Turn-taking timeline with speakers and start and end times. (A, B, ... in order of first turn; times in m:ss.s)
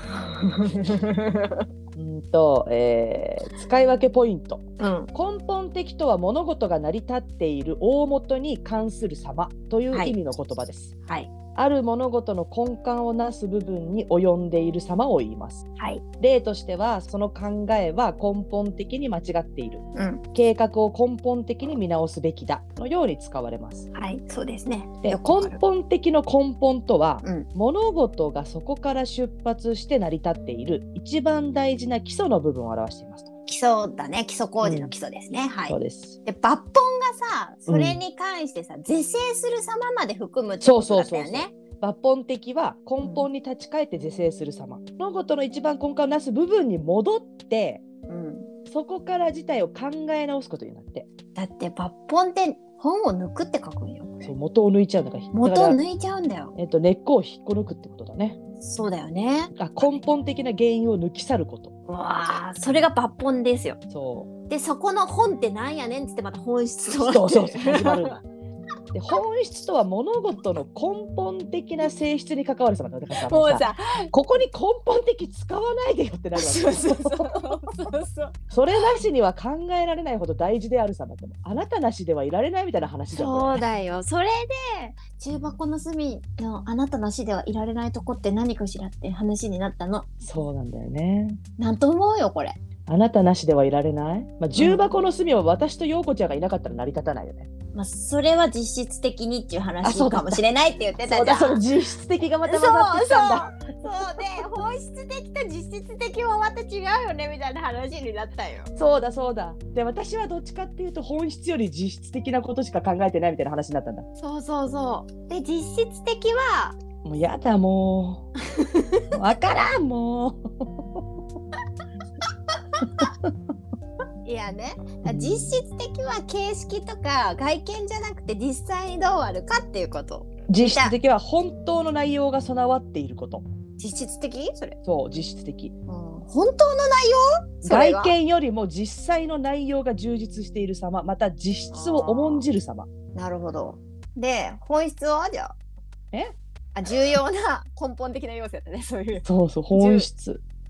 0:00.1-0:01.6 A
0:02.0-0:04.6 B
0:04.8-0:05.1 A
0:05.1-0:10.9 B
0:11.5-0:15.6 B
0:16.2-0:19.8 B
0:19.9-0:20.2 A
0:20.3-0:23.9 B
0:23.9-0:25.6 A
0:25.0-0:33.3 B
0:27.2-0:27.5 A
0:33.4-0:41.5 A
0:34.6-0:34.9 B
0:35.7-0:36.2 B
0:37.7-0:38.0 B
0:40.6-0:47.8 B
0:43.0-0:43.3 A
0:48.1-0:48.5 A
0:48.7-0:51.1 B
0:51.3-0:54.3 A
0:54.2-0:55.8 B
0:55.3-0:56.5 A
0:56.6-0:58.4 B
0:58.6-1:00.0 A
0:59.5-1:01.7 B
1:01.9-1:03.8 A
1:03.9-1:04.3 B
1:04.5-1:08.2 A
1:07.0-1:08.2 B
1:08.9-1:17.5 B
1:13.1-1:14.1 A
1:16.4-1:18.9 A
1:18.5-1:23.6 B
1:23.1-1:30.1 A
1:30.2-1:31.4 B
1:31.6-1:32.6 A
1:32.9-1:37.5 B
1:34.6-1:34.9 A
1:37.7-1:41.6 A
1:39.8-1:40.4 B
1:41.1-1:43.5 B
1:42.5-1:48.7 A
1:48.8-1:54.0 B
1:54.2-1:56.8 A
1:57.0-1:58.3 B
1:58.6-1:59.0 A
1:59.1-2:01.0 B
2:03.0-2:03.3 B
2:04.2-2:10.9 A
2:05.0-2:05.6 B
2:10.5-2:13.5 B
2:13.8-2:14.8 A
2:14.8-2:15.7 B
2:15.9-2:18.1 A
2:17.6-2:22.9 B
2:21.7-2:22.5 A
2:23.1-2:25.5 A
2:26.7-2:30.1 A
2:29.2-2:30.4 B